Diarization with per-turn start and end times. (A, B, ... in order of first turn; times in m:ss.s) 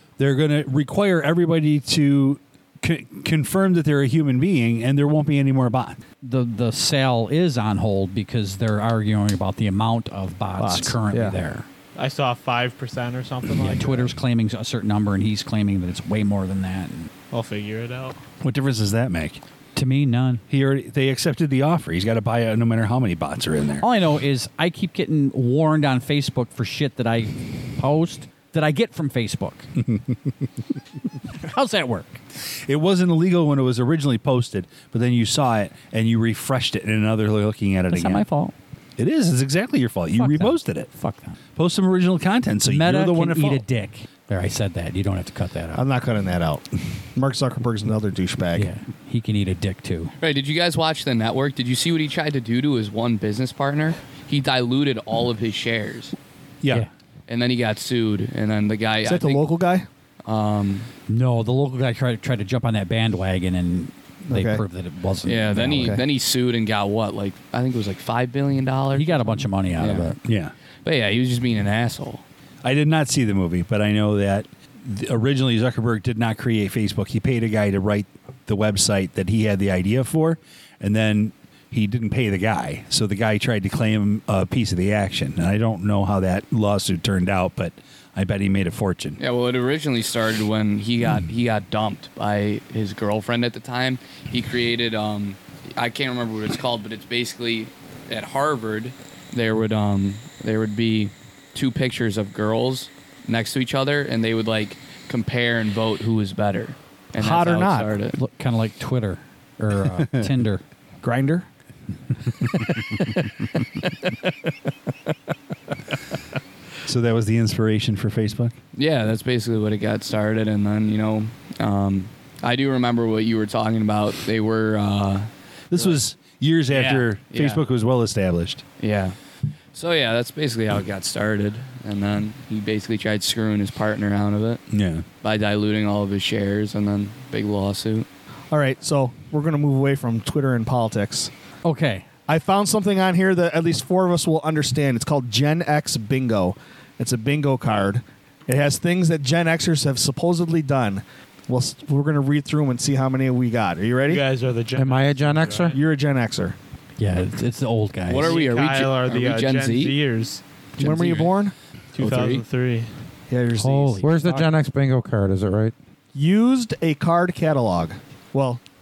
0:00.2-0:06.0 A
0:06.2-0:11.6 B
0:10.6-0:11.4 C
0:12.0-0:14.1 D
0:13.6-0:17.1 B
0:17.3-0:18.2 D
0:18.4-0:19.4 A
0:19.7-0:20.4 B
0:20.5-0:23.8 A
0:23.8-0:29.7 B
0:31.4-0:32.2 B
0:32.6-0:38.2 A
0:37.9-0:38.5 B
0:39.0-0:40.9 A
0:40.1-0:41.4 B
0:41.6-0:43.6 A
0:42.6-0:45.8 B
0:45.7-0:48.7 C
0:48.5-0:50.1 B
0:50.2-0:56.2 E
0:56.6-0:56.9 A
0:57.3-0:59.4 E
0:59.0-0:59.9 C
1:00.2-1:00.9 E
1:01.1-1:06.0 B
1:04.3-1:04.6 C
1:05.2-1:10.2 E
1:05.7-1:06.0 C
1:08.9-1:10.2 B
1:10.2-1:10.5 A
1:10.8-1:12.2 E
1:12.6-1:29.2 A
1:29.2-1:48.2 E
1:47.2-1:48.0 C
1:48.1-1:50.6 B
1:50.0-1:50.3 A
1:51.0-1:51.5 C
1:56.8-1:58.5 A
1:58.7-2:05.9 E
2:05.7-2:08.6 A
2:06.7-2:07.6 E
2:08.8-2:09.2 E
2:09.7-2:14.6 E
2:14.7-2:15.0 A
2:15.2-2:18.0 E
2:18.5-2:21.3 C
2:21.6-2:22.0 B
2:22.3-2:34.2 C
2:34.1-2:35.8 D
2:34.8-2:35.8 F
2:35.7-2:36.6 C
2:37.0-2:38.4 B
2:38.1-2:40.0 E
2:38.2-2:40.4 D
2:40.8-2:41.5 C
2:40.8-2:41.3 E
2:41.9-2:42.9 D
2:42.0-2:42.4 E
2:43.3-2:44.0 C
2:43.6-2:44.5 B
2:44.0-2:45.7 F
2:46.1-2:48.6 C